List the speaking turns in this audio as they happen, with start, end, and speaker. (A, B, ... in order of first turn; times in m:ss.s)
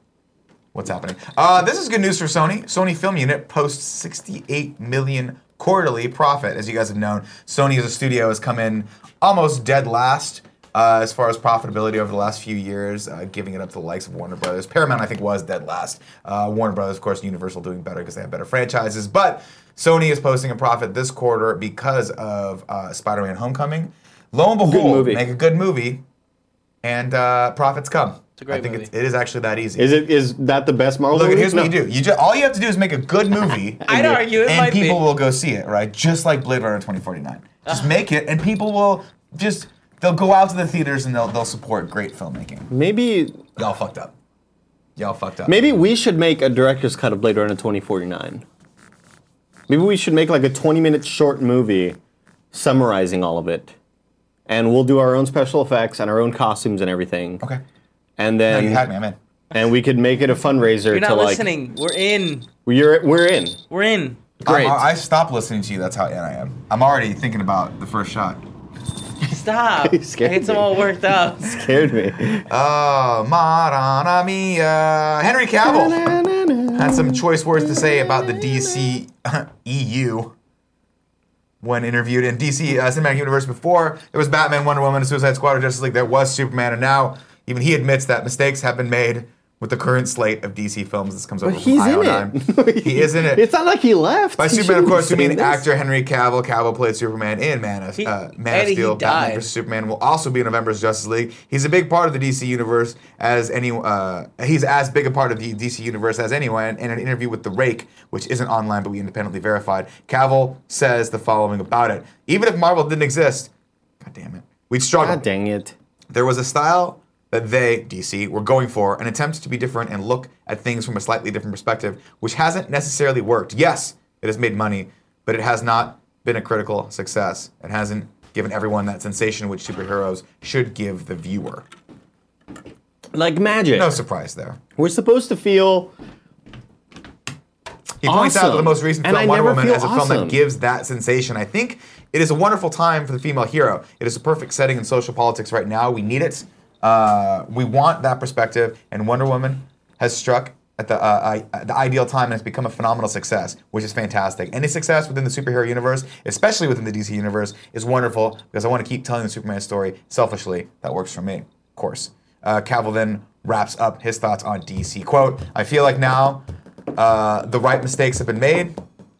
0:00.7-0:26.0 A
0:24.6-0:25.2 B
0:26.8-0:30.0 A
0:28.4-0:28.9 C
0:29.8-0:31.8 B
0:31.1-0:42.7 A
0:33.9-0:34.2 B
0:33.9-0:35.0 C
0:42.7-0:43.4 B
0:43.6-0:44.1 A
0:45.0-0:45.7 A
0:45.4-0:48.4 B
0:49.7-0:52.0 B
0:52.5-0:53.7 B
0:54.5-0:57.4 B
0:58.2-0:58.9 B
0:58.5-0:59.2 A
0:59.5-1:01.5 B
1:00.9-1:02.5 C
1:02.6-1:03.6 B
1:03.7-1:04.2 C
1:04.4-1:08.4 A
1:04.4-1:04.8 B
1:09.2-1:11.7 C
1:09.8-1:10.8 B
1:11.4-1:12.4 B
1:12.4-1:16.0 A
1:15.6-1:19.0 B
1:16.7-1:20.3 A
1:21.6-1:33.5 A
1:31.4-1:35.6 B
1:34.4-1:55.2 A
1:38.0-1:39.5 C
1:55.0-1:55.7 B
1:56.1-2:11.6 A
2:13.1-2:14.0 B
2:13.7-2:14.6 A
2:14.8-2:15.9 B
2:18.0-2:48.8 A
2:18.0-2:20.4 B